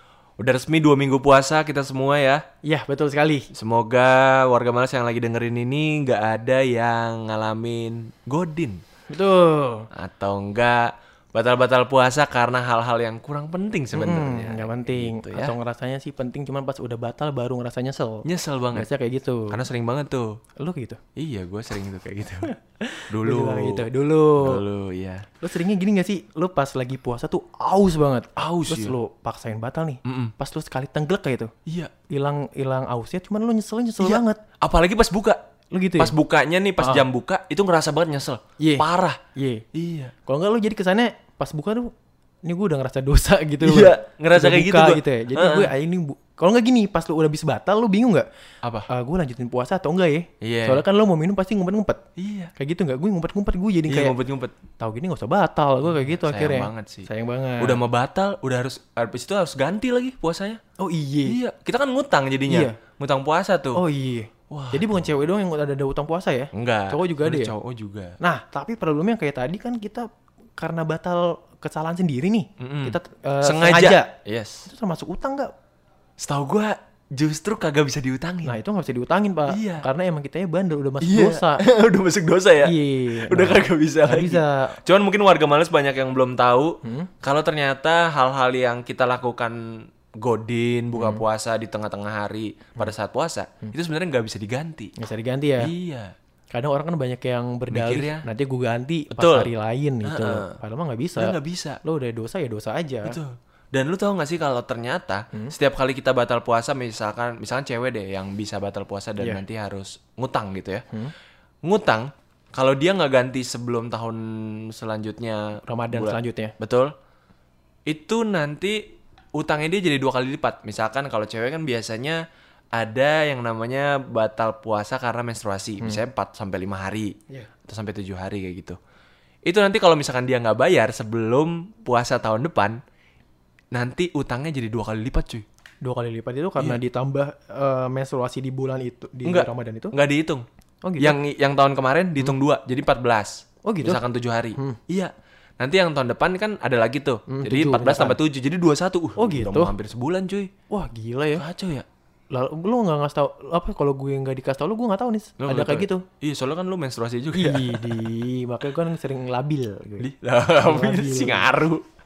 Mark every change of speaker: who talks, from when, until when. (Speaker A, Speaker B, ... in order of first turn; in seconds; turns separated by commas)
Speaker A: 0.4-2.4, Speaker B: 2.6-3.5, Speaker A: 3.5-8.8, Speaker B: 9.1-9.9, Speaker A: 9.9-15.5, Speaker B: 13.9-19.6, Speaker A: 18.2-18.9, Speaker A: 19.5-20.4, Speaker B: 20.6-21.0, Speaker A: 21.2-22.5, Speaker B: 22.5-24.6, Speaker A: 23.1-25.3, Speaker B: 25.4-31.5, Speaker A: 28.4-28.9, Speaker A: 30.1-30.3, Speaker A: 31.7-31.9, Speaker B: 32.1-34.4, Speaker A: 34.0-35.4, Speaker B: 35.7-36.1, Speaker A: 36.0-39.2, Speaker B: 38.6-39.6, Speaker A: 39.7-40.1, Speaker B: 40.2-41.9, Speaker B: 42.4-48.3, Speaker A: 43.6-45.7, Speaker A: 48.6-48.9, Speaker B: 48.9-52.0, Speaker A: 50.4-50.8, Speaker A: 52.2-52.5, Speaker B: 52.6-54.2, Speaker A: 53.9-54.6, Speaker B: 54.8-57.8, Speaker A: 55.9-60.6, Speaker B: 60.8-61.4, Speaker A: 61.2-63.8, Speaker B: 62.5-62.8, Speaker B: 63.7-67.5, Speaker A: 64.5-65.0, Speaker A: 66.5-68.2, Speaker B: 68.2-74.1, Speaker A: 72.6-74.7, Speaker B: 74.7-75.5, Speaker A: 76.2-78.6, Speaker B: 78.4-81.6, Speaker A: 79.5-79.9, Speaker A: 81.0-94.9, Speaker B: 82.6-84.8, Speaker B: 86.8-87.1, Speaker B: 91.0-91.2, Speaker B: 95.0-95.7, Speaker A: 95.6-96.1, Speaker B: 96.5-103.2, Speaker A: 97.7-98.2, Speaker A: 99.1-99.5, Speaker A: 100.0-100.6, Speaker A: 101.2-101.8, Speaker A: 103.0-110.9, Speaker A: 111.6-116.9, Speaker B: 115.7-116.6, Speaker A: 117.9-122.2, Speaker A: 122.8-127.1, Speaker A: 127.7-128.8, Speaker A: 129.4-132.8, Speaker A: 133.7-135.4, Speaker B: 135.8-139.9, Speaker A: 139.2-140.5, Speaker B: 140.8-141.2, Speaker A: 141.0-150.5, Speaker B: 143.7-144.0, Speaker B: 147.3-148.2, Speaker B: 149.2-149.7, Speaker B: 150.7-151.4, Speaker A: 151.3-151.8, Speaker B: 152.3-156.1, Speaker A: 155.4-158.1, Speaker B: 157.3-160.1, Speaker A: 160.0-161.8, Speaker B: 160.6-161.5